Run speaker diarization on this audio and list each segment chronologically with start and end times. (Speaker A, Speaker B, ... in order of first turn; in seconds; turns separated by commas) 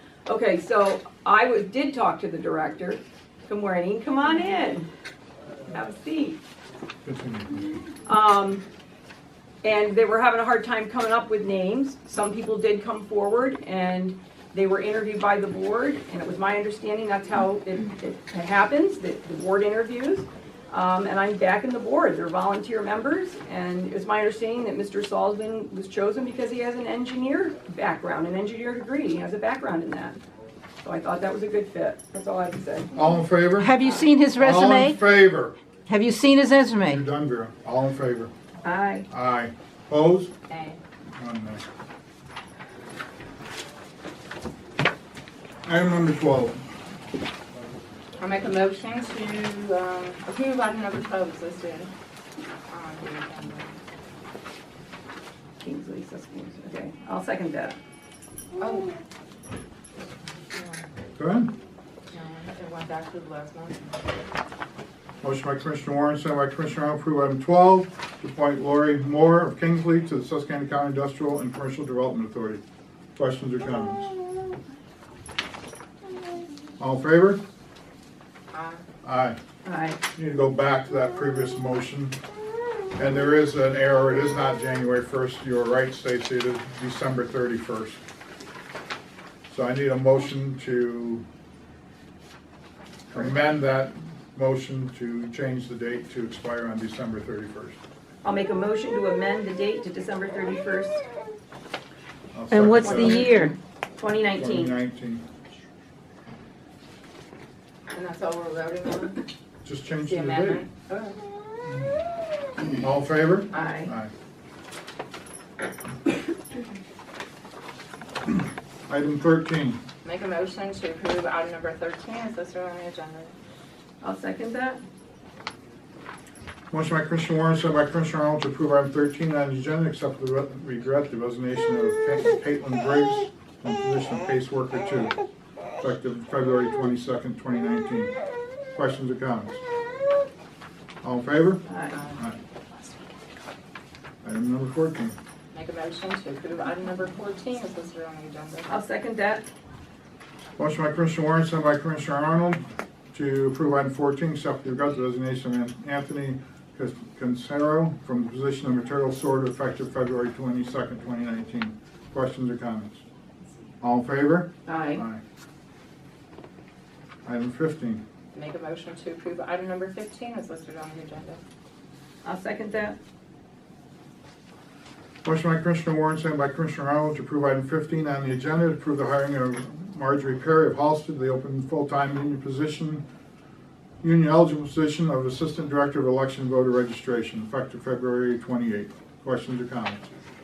Speaker A: 0.2-4.9, Speaker A: 5.7-6.4, Speaker B: 7.0-7.8, Speaker A: 8.1-8.6, Speaker A: 9.6-30.2, Speaker A: 30.8-33.0, Speaker B: 32.9-33.7, Speaker C: 33.6-35.0, Speaker A: 33.8-34.1, Speaker B: 34.4-35.5, Speaker C: 35.9-37.0, Speaker B: 36.9-38.3, Speaker A: 38.6-39.1, Speaker B: 39.1-40.3, Speaker D: 40.5-40.8, Speaker B: 41.2-41.6, Speaker B: 45.6-46.6, Speaker D: 48.2-51.9, Speaker D: 52.7-53.7, Speaker A: 55.6-57.8, Speaker D: 58.6-58.9, Speaker D: 60.5-60.8, Speaker B: 61.2-61.5, Speaker D: 62.1-63.9, Speaker B: 65.2-72.6, Speaker B: 73.2-74.1, Speaker B: 76.8-77.4, Speaker D: 78.5-78.8, Speaker B: 79.0-79.4, Speaker A: 79.6-80.0, Speaker B: 80.1-82.2, Speaker B: 83.0-88.0, Speaker B: 89.5-91.2, Speaker B: 93.1-97.8, Speaker A: 98.2-101.0, Speaker B: 102.3-103.2, Speaker C: 102.5-103.5, Speaker A: 102.8-104.7, Speaker B: 104.4-105.2, Speaker D: 107.9-109.2, Speaker B: 109.6-110.6, Speaker D: 110.0-111.2, Speaker B: 112.8-114.1, Speaker D: 113.5-113.8, Speaker A: 113.5-113.9, Speaker B: 118.9-119.8, Speaker D: 120.0-123.3, Speaker A: 124.0-124.8, Speaker B: 126.7-135.1, Speaker B: 135.8-138.1, Speaker B: 138.7-139.6, Speaker B: 141.0-142.4, Speaker A: 141.6-142.0, Speaker D: 141.9-142.2, Speaker B: 144.2-145.2, Speaker D: 145.5-148.7, Speaker A: 148.7-149.4, Speaker B: 150.6-163.0, Speaker B: 163.8-165.2, Speaker A: 164.7-165.0, Speaker B: 167.2-168.0, Speaker D: 168.3-171.4, Speaker A: 172.2-173.0, Speaker B: 175.2-183.0, Speaker B: 184.0-190.1